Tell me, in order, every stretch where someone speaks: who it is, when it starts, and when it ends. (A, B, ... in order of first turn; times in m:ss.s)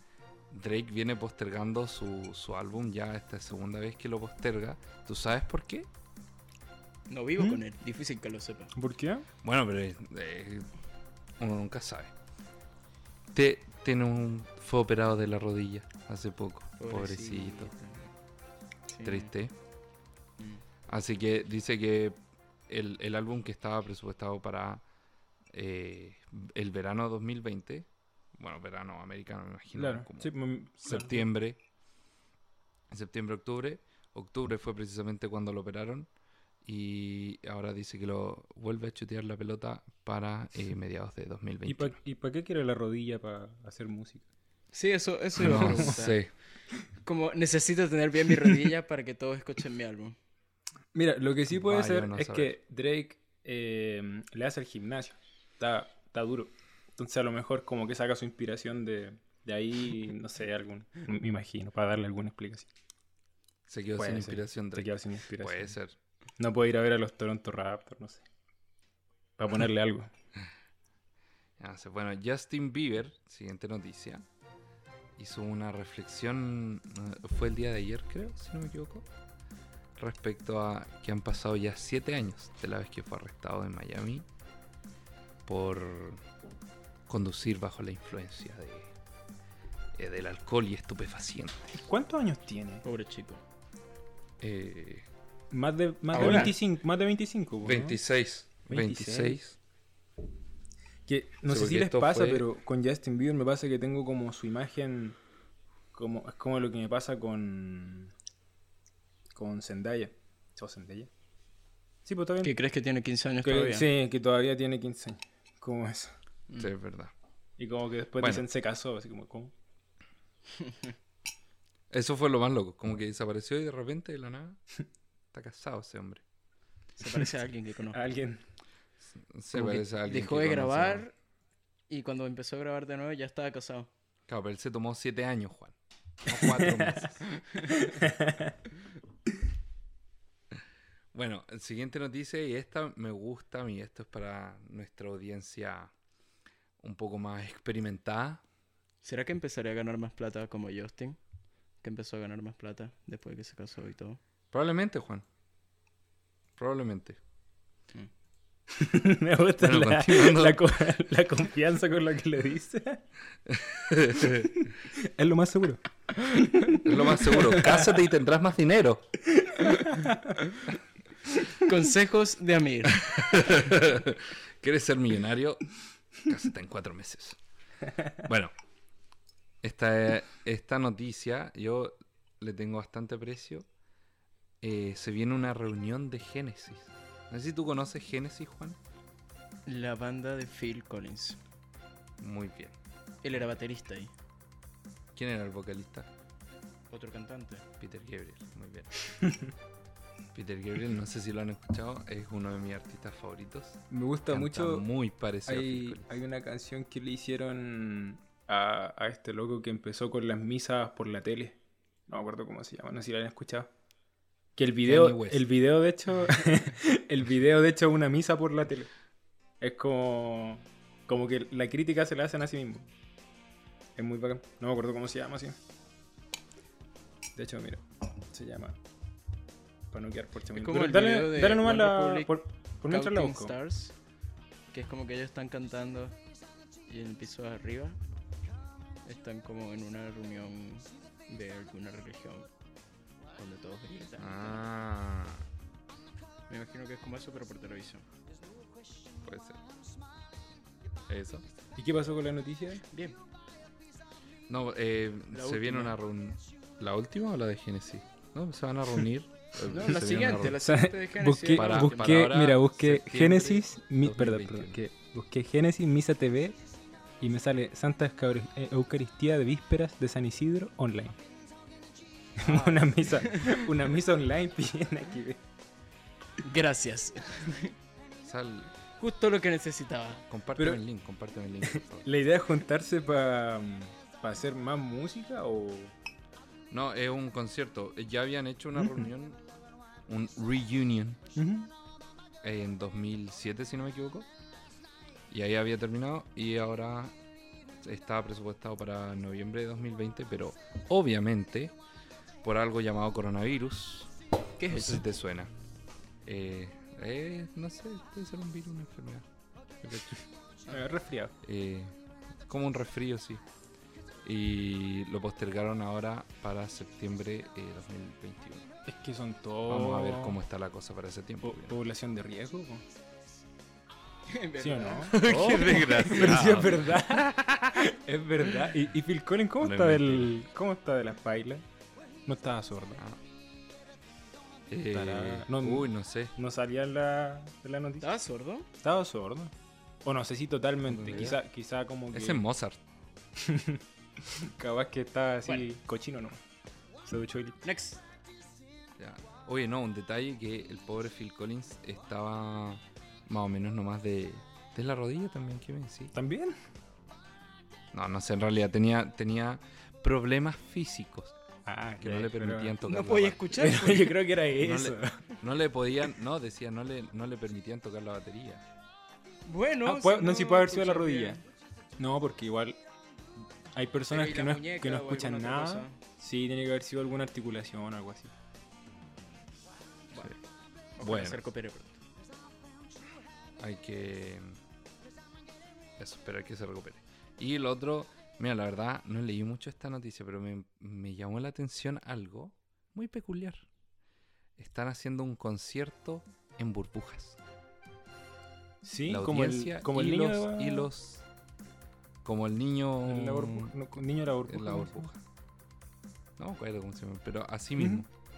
0:00.5-0:05.9 A
0:07.1-0:08.7 B
0:08.8-0:09.3 C
0:09.4-0:10.7 A
0:11.4-0:12.1 A
0:13.3-0:17.7 A
0:16.8-0:18.1 B
0:18.9-0:19.3 B
0:19.0-0:19.5 A
0:20.4-0:20.6 B
0:20.9-0:22.2 A
0:22.7-0:24.8 A
0:25.5-0:30.3 A
0:29.7-0:31.2 C
0:30.9-0:31.6 A
0:32.9-0:36.1 A
0:36.6-0:42.0 A
0:41.6-0:44.2 C
0:44.7-0:46.2 B
0:45.4-0:46.3 A
0:45.4-0:46.0 C
0:47.0-0:50.2 B
0:50.9-1:02.7 C
0:51.5-0:52.6 A
1:03.7-1:06.0 A
1:04.0-1:05.8 C
1:06.4-1:08.2 C
1:09.4-1:10.1 C
1:11.6-1:14.3 A
1:15.2-1:19.1 A
1:20.0-1:24.3 A
1:25.5-1:26.2 A
1:27.1-1:28.9 A
1:30.0-1:31.8 A
1:31.8-1:32.8 C
1:32.8-1:33.4 B
1:34.4-1:35.1 A
1:35.5-1:38.0 C
1:36.1-1:36.6 B
1:36.2-1:36.5 A
1:37.6-1:39.6 A
1:38.7-1:39.4 C
1:41.1-1:45.2 C
1:41.5-1:42.5 A
1:45.9-1:48.1 C
1:49.4-1:51.1 C
1:52.0-1:52.5 C
1:52.4-1:53.9 B
1:53.4-1:56.1 C
1:56.6-1:57.1 A
1:57.6-1:59.5 C
1:58.2-1:58.4 A
2:00.6-2:00.9 B
2:01.9-2:04.6 A
2:05.3-2:06.2 A
2:07.0-2:08.0 B
2:07.9-2:08.4 C
2:09.1-2:11.0 A
2:09.7-2:11.1 B
2:11.9-2:13.9 B
2:14.3-2:17.2 A
2:16.4-2:17.1 C
2:17.3-2:18.0 B
2:17.7-2:18.6 C
2:21.1-2:25.9 A
2:26.8-2:28.4 A
2:29.0-2:31.2 B
2:31.8-2:34.2 B
2:34.5-2:35.3 A
2:36.6-2:37.2 A
2:38.7-2:43.0 C
2:39.6-2:40.7 A
2:43.5-2:44.5 A
2:44.5-2:47.9 C
2:46.2-2:46.8 B
2:46.8-2:49.2 A
2:49.3-2:50.4 C
2:51.5-2:53.6 B
2:53.2-2:55.6 A
2:56.2-2:57.4 A
2:58.2-2:58.5 A
2:59.6-3:03.7 A
3:04.6-3:08.8 A
3:09.7-3:11.4 B
3:12.2-3:12.8 A
3:13.2-3:14.1 B
3:15.2-3:16.1 A
3:16.9-3:17.7 B
3:17.8-3:18.9 A
3:20.3-3:26.1 A
3:23.9-3:24.9 C
3:25.4-3:31.6 C
3:32.1-3:33.7 C
3:34.6-3:38.9 C
3:34.8-3:35.5 A
3:39.6-3:42.9 C
3:44.0-3:45.6 C
3:47.4-3:48.8 C
3:49.9-3:53.6 C
3:50.5-3:52.3 B
3:52.9-3:54.0 B
3:54.7-3:56.2 B
3:56.9-3:58.0 B
3:59.0-4:02.5 B
4:03.4-4:04.6 B
4:04.2-4:05.5 A
4:06.5-4:08.1 B
4:09.2-4:09.6 A
4:11.1-4:11.5 A
4:11.8-4:12.9 C
4:12.9-4:13.2 B
4:14.5-4:20.6 A
4:15.3-4:16.0 B
4:19.6-4:22.3 B
4:20.6-4:26.6 C
4:21.5-4:24.8 A
4:27.2-4:31.2 C
4:32.4-4:35.4 C
4:32.4-4:33.7 B
4:36.4-4:37.7 B
4:38.2-4:38.7 A
4:39.0-4:40.2 B
4:40.3-4:42.1 A
4:41.6-4:45.9 C
4:46.7-4:49.4 A
4:48.8-4:49.1 C
4:50.1-4:51.2 A
4:51.4-4:51.7 C
4:52.4-4:54.3 A
4:55.3-4:57.2 A
4:57.8-5:01.8 A
5:02.4-5:04.1 A
5:04.6-5:05.0 B
5:04.7-5:05.5 A
5:06.2-5:09.3 A
5:10.7-5:11.3 C
5:11.4-5:12.0 A
5:12.5-5:13.4 A
5:14.2-5:18.7 A
5:18.9-5:20.4 C
5:19.7-5:21.8 A
5:21.4-5:22.8 C
5:24.3-5:26.4 B
5:24.6-5:31.6 C
5:25.1-5:27.9 A
5:29.6-5:30.3 A
5:32.3-5:33.0 C
5:34.7-5:36.3 A
5:34.9-5:38.1 C
5:38.0-5:38.7 B
5:38.8-5:39.5 C
5:40.0-5:42.4 C
5:40.9-5:41.4 A
5:42.1-5:42.8 A
5:43.4-5:46.4 C
5:47.1-5:47.6 C
5:47.6-5:48.0 B
5:49.0-5:56.1 A
5:56.1-5:56.6 C
5:57.9-6:01.4 A
6:01.7-6:02.8 C
6:02.0-6:03.4 A
6:02.8-6:04.2 B
6:03.6-6:05.4 C
6:04.6-6:08.6 A
6:09.4-6:11.4 B
6:09.8-6:11.4 C
6:12.0-6:12.8 C
6:13.7-6:18.3 C
6:14.1-6:16.0 B
6:20.1-6:20.4 B
6:21.0-6:22.0 B
6:21.0-6:21.4 A
6:23.6-6:24.6 A
6:26.0-6:33.7 A
6:34.6-6:37.4 A
6:38.8-6:40.9 C
6:39.1-6:41.3 A
6:42.2-6:43.7 A
6:43.0-6:45.1 C
6:44.5-6:45.2 A
6:46.4-6:48.1 A
6:47.8-6:48.1 C